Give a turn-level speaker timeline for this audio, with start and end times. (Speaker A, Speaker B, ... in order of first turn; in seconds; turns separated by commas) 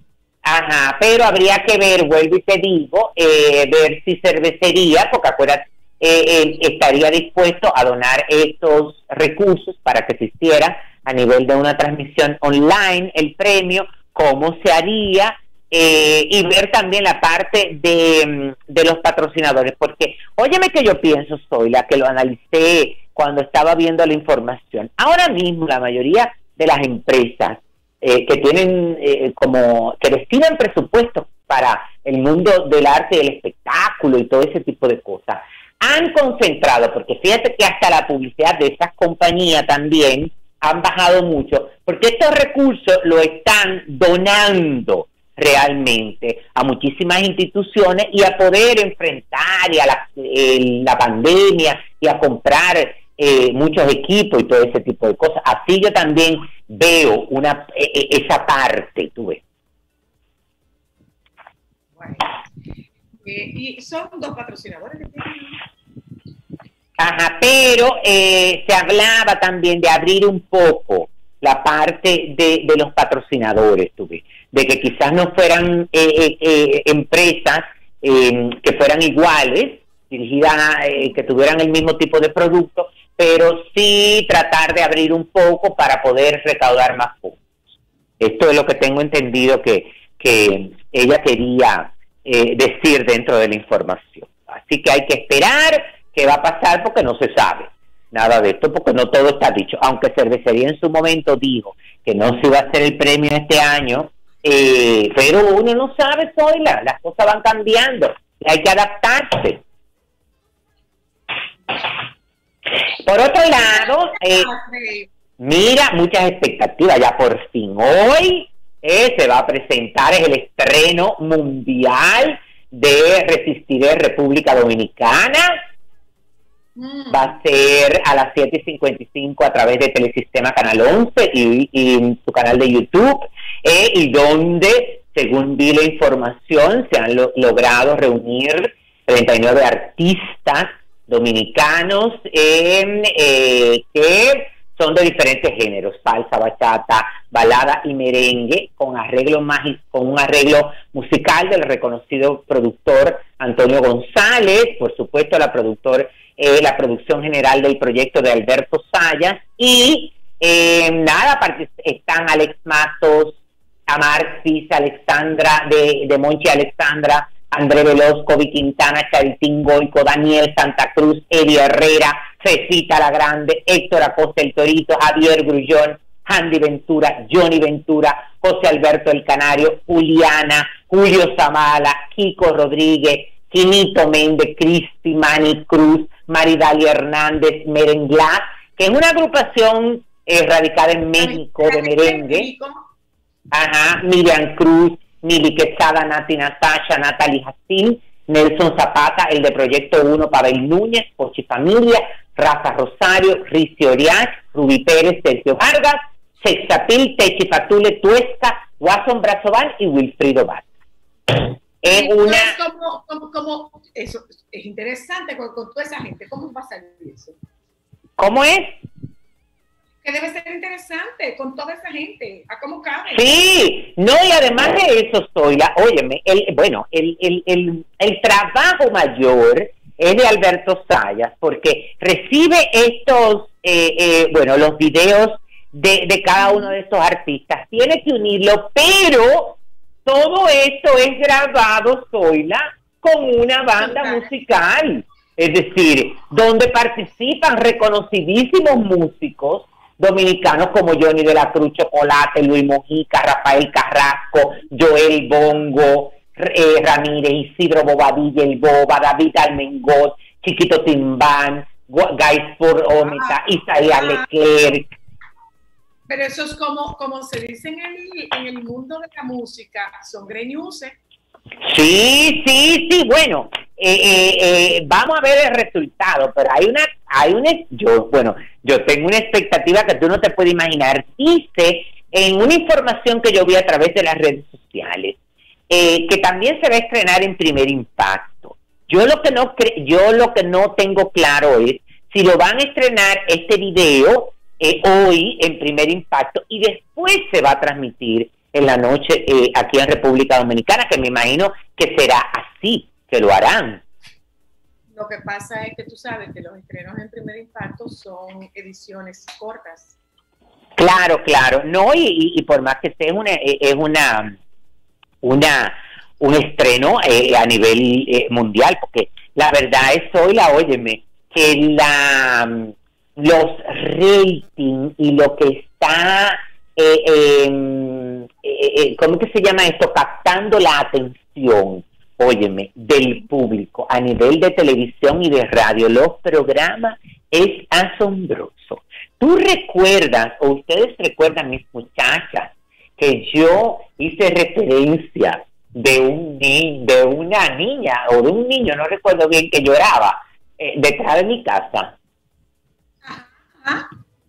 Speaker A: 0.4-59.4, Speaker B: 62.0-62.3, Speaker B: 63.2-65.6, Speaker A: 67.0-87.4, Speaker A: 88.2-109.6, Speaker A: 113.0-114.5, Speaker B: 113.6-115.1, Speaker A: 115.4-125.6, Speaker B: 126.8-127.3, Speaker A: 127.1-192.5, Speaker B: 191.2-192.8, Speaker A: 193.5-210.7, Speaker A: 211.3-212.6, Speaker B: 211.8-217.3, Speaker A: 218.2-218.8, Speaker B: 220.0-223.3, Speaker A: 223.1-264.9, Speaker B: 236.4-236.7, Speaker B: 243.8-244.3, Speaker B: 262.9-263.4, Speaker B: 263.9-264.3, Speaker B: 266.1-271.0, Speaker A: 271.6-285.2, Speaker A: 285.7-303.8, Speaker B: 304.9-310.0, Speaker A: 310.8-314.4, Speaker A: 315.2-351.9, Speaker B: 353.0-353.9